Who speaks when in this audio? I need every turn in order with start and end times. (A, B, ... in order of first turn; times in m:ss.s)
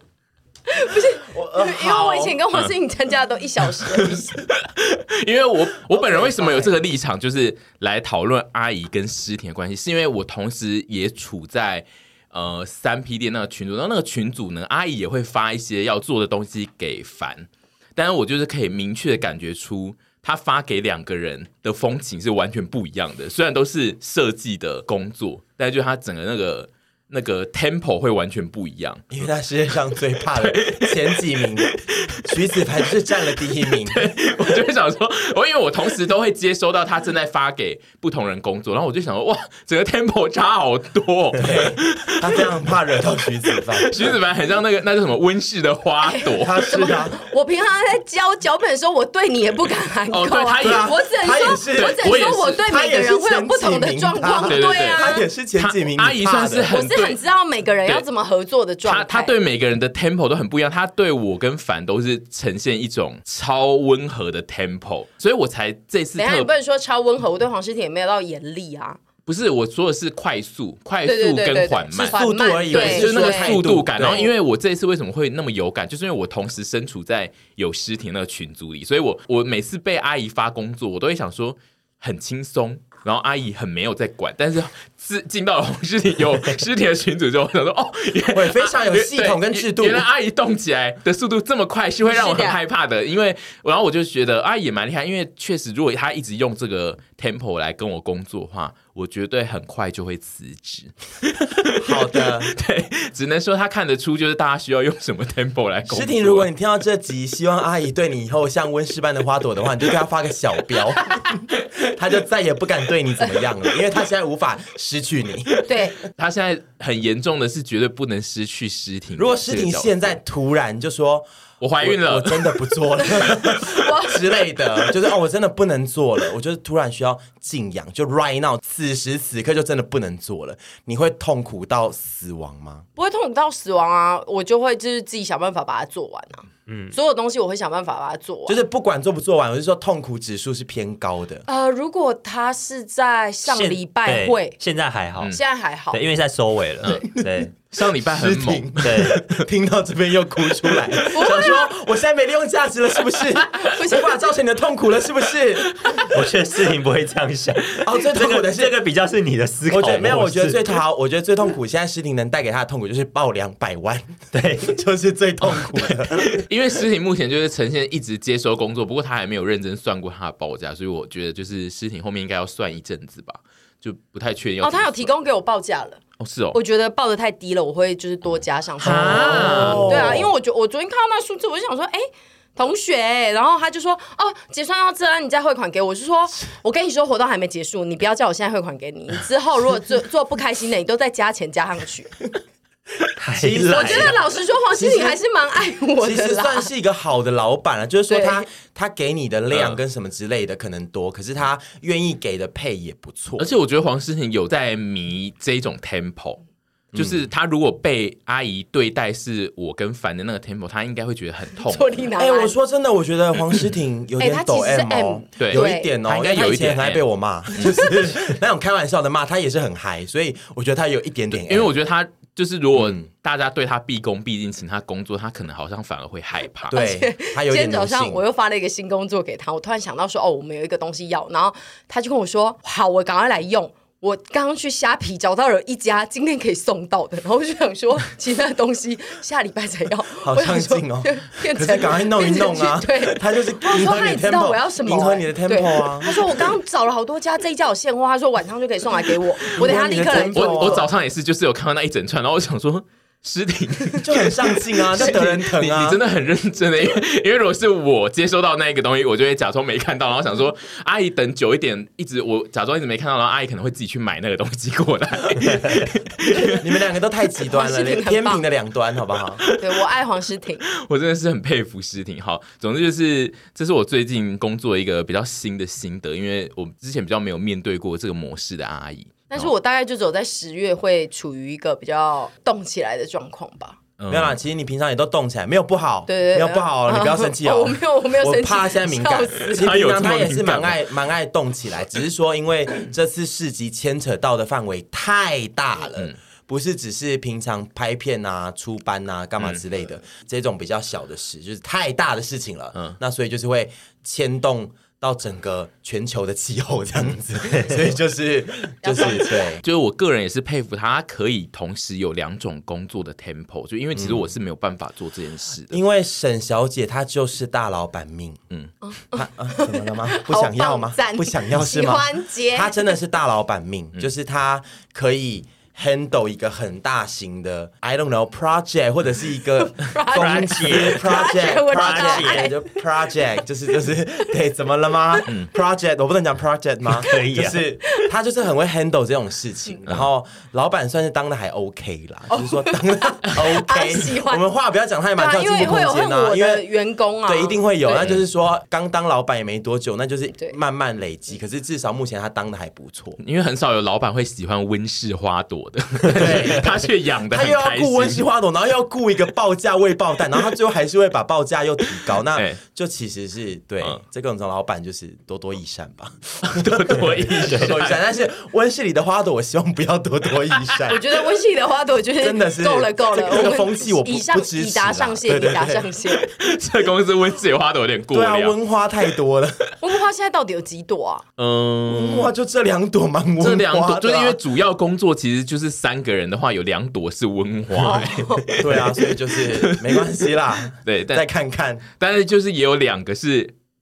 0:00.7-0:04.5 A
0:01.3-0:02.4 B
0:03.8-0:29.0 C
0:05.9-0:06.7 B
0:29.1-0:34.2 B
0:30.3-0:42.5 C
0:41.4-0:44.2 B
0:43.5-0:46.9 C
0:46.0-0:55.3 A
0:46.3-0:47.2 B
0:50.1-0:50.9 C
0:50.6-0:56.7 B
0:51.8-0:52.6 C
0:54.5-0:57.2 C
0:56.7-0:59.4 A
0:58.8-1:06.5 C
1:06.2-1:09.0 A
1:09.3-1:46.5 C
1:11.0-1:13.6 A
1:11.9-1:14.3 B
1:28.3-1:30.1 B
1:32.1-1:32.6 A
1:41.8-1:42.5 B
1:45.9-1:55.6 B
1:55.6-1:56.0 A
1:56.1-1:59.9 C
1:59.2-2:01.3 B
2:01.6-2:02.6 C
2:01.8-2:12.9 B
2:03.0-2:04.4 A
2:13.0-2:18.6 A
2:16.7-2:17.0 D
2:18.5-2:21.4 B
2:21.5-2:24.6 A
2:23.4-2:25.4 D
2:25.3-2:26.0 A
2:25.9-2:27.5 D
2:26.9-2:36.0 B
2:27.7-2:29.4 C
2:28.8-2:29.2 D
2:31.1-2:31.7 A
2:33.6-2:34.2 A
2:36.0-2:40.8 D
2:37.8-2:38.8 B
2:39.7-2:46.4 B
2:44.3-2:44.8 D
2:45.4-2:46.0 D
2:46.2-2:55.1 C
2:54.6-2:56.0 A
2:56.2-2:56.6 C
2:56.5-3:12.1 A
2:58.8-3:00.2 C
2:58.8-3:00.3 B
3:13.2-3:14.2 D
3:13.3-3:14.2 B
3:13.7-3:16.7 A
3:14.7-3:15.2 B
3:16.0-3:23.5 B
3:18.1-3:18.5 A
3:19.5-3:19.8 C
3:23.4-3:26.4 C
3:26.9-3:31.9 C
3:26.9-3:27.2 B
3:31.6-3:32.6 A
3:32.2-3:41.7 B
3:34.2-3:35.9 A
3:35.4-3:37.0 C
3:37.6-3:37.8 C
3:41.4-3:46.7 C
3:42.8-3:43.0 B
3:46.7-3:48.2 B
3:46.7-4:10.8 A
4:00.2-4:06.2 B
4:09.5-4:10.9 B
4:09.6-4:26.8 C
4:14.0-4:16.0 B
4:26.5-4:29.4 B
4:27.5-4:28.4 A
4:29.5-4:30.6 A
4:30.7-4:39.5 C
4:39.3-4:43.8 A
4:44.0-4:44.4 C
4:44.1-5:09.6 B
4:46.1-4:49.6 A
4:49.5-4:50.8 C
5:08.8-5:09.3 A
5:09.6-5:15.8 C
5:14.0-5:14.3 B
5:15.7-5:18.4 B
5:18.8-5:23.0 A
5:19.1-5:46.7 B
5:29.6-5:32.6 A
5:30.1-5:32.6 D
5:37.0-5:37.6 D
5:42.3-5:44.4 A
5:45.2-5:48.1 A
5:47.3-5:53.2 B
5:53.2-5:58.2 C
5:56.1-6:11.0 B
6:02.3-6:02.6 C
6:06.4-6:08.0 C
6:07.4-6:07.7 D
6:10.9-6:16.3 A
6:12.2-6:15.9 B
6:16.2-6:18.6 C
6:18.1-6:19.6 B
6:19.8-6:21.2 A
6:21.4-6:22.3 C
6:21.9-6:24.4 B
6:23.4-6:31.2 C
6:27.8-6:28.5 A
6:28.6-6:31.8 B
6:32.0-6:33.5 C